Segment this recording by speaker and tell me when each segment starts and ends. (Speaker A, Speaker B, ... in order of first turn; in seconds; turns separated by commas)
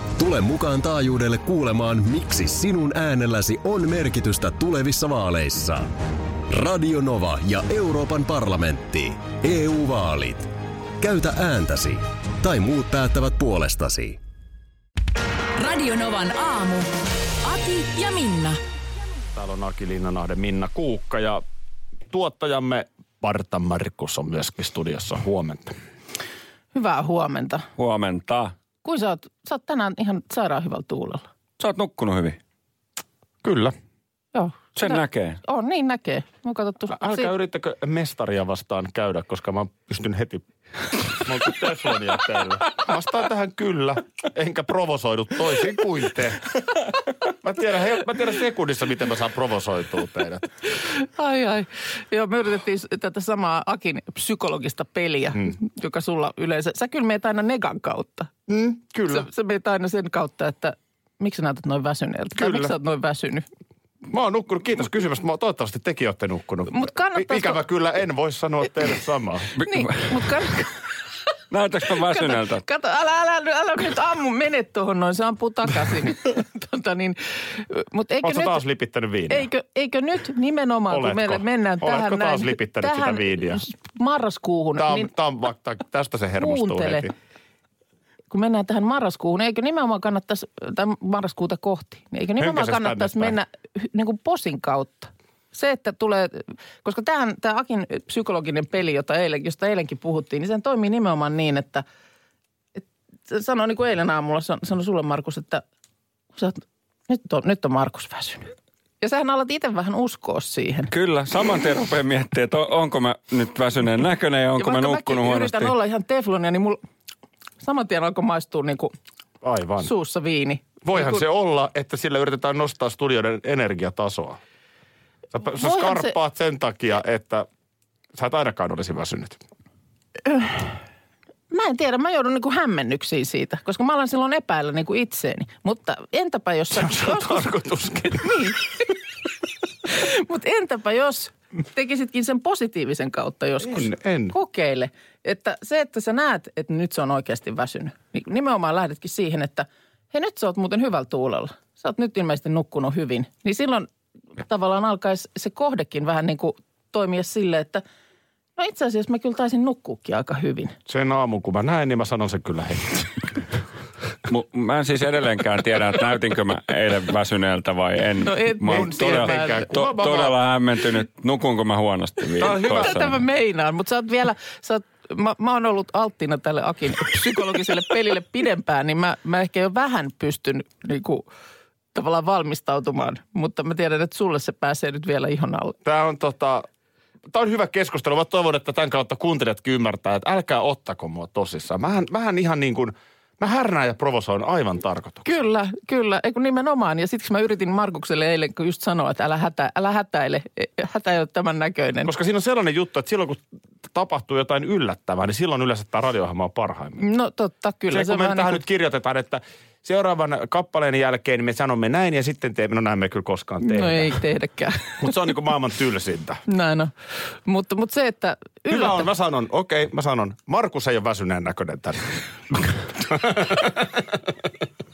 Speaker A: 0.2-5.9, Speaker A: 6.5-14.2, Speaker B: 15.6-18.6, Speaker C: 19.4-21.4, Speaker C: 22.1-25.8, Speaker D: 26.7-27.7, Speaker E: 27.8-28.6, Speaker D: 28.8-31.2, Speaker E: 31.6-32.4, Speaker C: 33.4-33.8, Speaker D: 34.3-37.3, Speaker E: 34.8-35.4, Speaker C: 36.9-50.5, Speaker D: 50.7-58.3, Speaker C: 58.5-59.3, Speaker D: 59.1-63.5, Speaker C: 62.4-62.7, Speaker C: 64.1-69.5, Speaker D: 66.7-67.6, Speaker E: 69.6-70.2, Speaker D: 69.6-70.7, Speaker E: 71.5-72.6, Speaker D: 72.0-78.6, Speaker C: 78.2-79.5, Speaker D: 79.3-85.1, Speaker C: 80.9-83.6, Speaker C: 84.8-87.1, Speaker D: 86.4-87.1, Speaker D: 88.3-101.8, Speaker C: 92.4-93.4, Speaker D: 102.8-105.6, Speaker D: 106.3-110.9, Speaker E: 110.9-115.7, Speaker D: 114.6-116.8, Speaker D: 117.6-118.9, Speaker C: 119.4-119.9, Speaker D: 119.8-121.2, Speaker C: 120.8-124.4, Speaker C: 125.3-127.5, Speaker D: 125.5-126.2, Speaker C: 128.2-129.4, Speaker D: 130.3-130.7, Speaker D: 131.5-138.9, Speaker C: 136.8-138.5, Speaker D: 139.8-157.8, Speaker C: 143.6-144.3, Speaker D: 158.6-160.8, Speaker C: 160.9-163.3, Speaker E: 164.3-173.2, Speaker D: 168.2-169.9, Speaker C: 168.7-170.3, Speaker C: 172.4-173.1, Speaker D: 172.4-181.3, Speaker D: 181.9-185.8, Speaker C: 185.8-186.7, Speaker C: 187.3-195.5, Speaker D: 195.2-202.1, Speaker C: 202.1-207.0, Speaker D: 207.0-208.6, Speaker C: 207.9-214.2, Speaker D: 213.6-215.3, Speaker C: 215.0-216.4, Speaker D: 216.5-216.9, Speaker D: 217.4-219.1, Speaker C: 218.7-224.0